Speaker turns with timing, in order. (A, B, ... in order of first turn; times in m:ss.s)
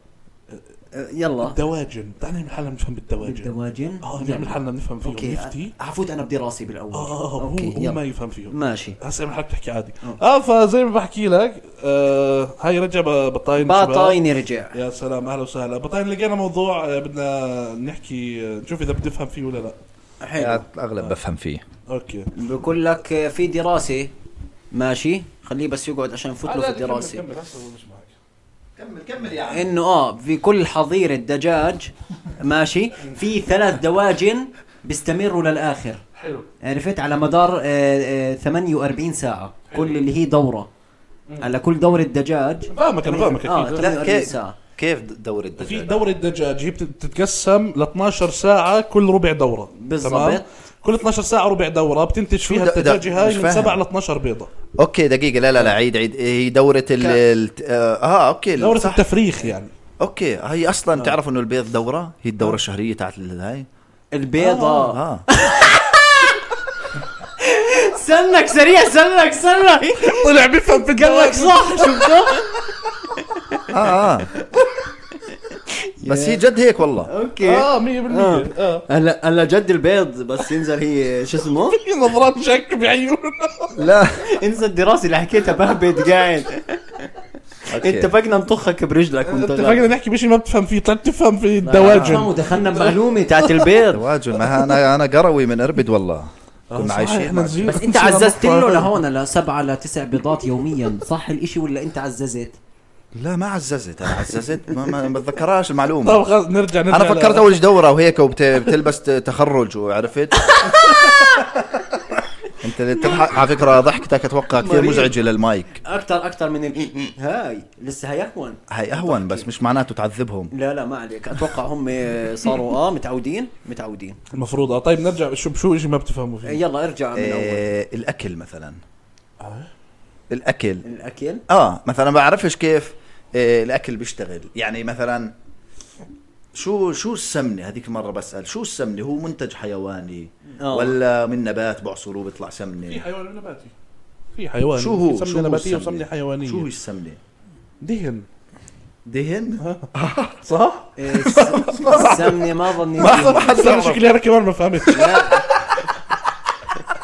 0:00.9-0:01.6 A
0:01.4-0:03.5 B
0:03.2-0:08.0 A
0:04.0-0:05.7 B
0:06.9-0:14.2 B
0:08.5-0:09.0 A
0:13.6-0:14.8 A
0:14.7-0:19.8 B
0:20.2-0:20.6 A
0:20.4-0:21.6 C
0:21.9-0:22.3 B
0:22.3-0:24.1 A
0:24.7-0:27.2 A
0:26.4-0:28.2 B
0:28.8-0:29.7 C
0:29.5-0:36.0 A
0:36.2-0:36.5 B
0:36.6-0:40.7 A
0:39.7-0:40.0 B
0:41.4-0:44.6 A
0:42.7-0:43.8 B
0:43.8-0:46.0 C
0:45.6-0:54.5 B
0:49.8-0:50.4 A
0:52.4-0:53.8 C
0:54.8-0:59.0 C
0:58.6-0:59.7 B
1:00.0-1:03.7 C
1:04.1-1:06.4 A
1:04.4-1:04.9 B
1:04.8-1:05.2 C
1:07.4-1:10.3 A
1:10.0-1:12.2 B
1:10.9-1:12.5 A
1:13.7-1:14.3 C
1:15.7-1:16.4 A
1:16.0-1:17.1 C
1:17.1-1:21.8 A
1:17.4-1:18.9 B
1:21.7-1:23.8 B
1:23.8-1:24.2 C
1:24.2-1:26.6 A
1:27.7-1:28.1 C
1:27.7-1:29.9 A
1:29.3-1:32.9 B
1:31.6-1:34.0 A
1:33.9-1:37.7 C
1:36.7-1:39.0 B
1:37.6-1:42.6 A
1:43.2-1:46.2 C
1:46.0-1:47.5 B
1:46.9-1:50.5 C
1:50.5-1:51.5 A
1:52.6-1:55.8 C
1:54.6-1:55.2 A
1:55.8-1:59.5 A
1:58.7-2:00.5 C
2:00.5-2:04.2 A
2:04.3-2:06.6 B
2:06.4-2:07.7 A
2:07.2-2:08.8 C
2:09.4-2:09.7 B
2:10.3-2:10.8 C
2:10.8-2:11.4 A
2:11.5-2:15.3 C
2:16.6-2:23.0 C
2:20.6-2:21.0 A
2:22.9-2:23.7 B
2:24.4-2:26.7 B
2:24.8-2:27.2 C
2:27.8-2:28.2 B
2:29.0-2:30.4 C
2:29.6-2:29.9 B
2:30.4-2:35.5 B
2:31.0-2:33.7 A
2:31.4-2:31.7 C
2:33.0-2:34.0 C
2:34.9-2:35.5 A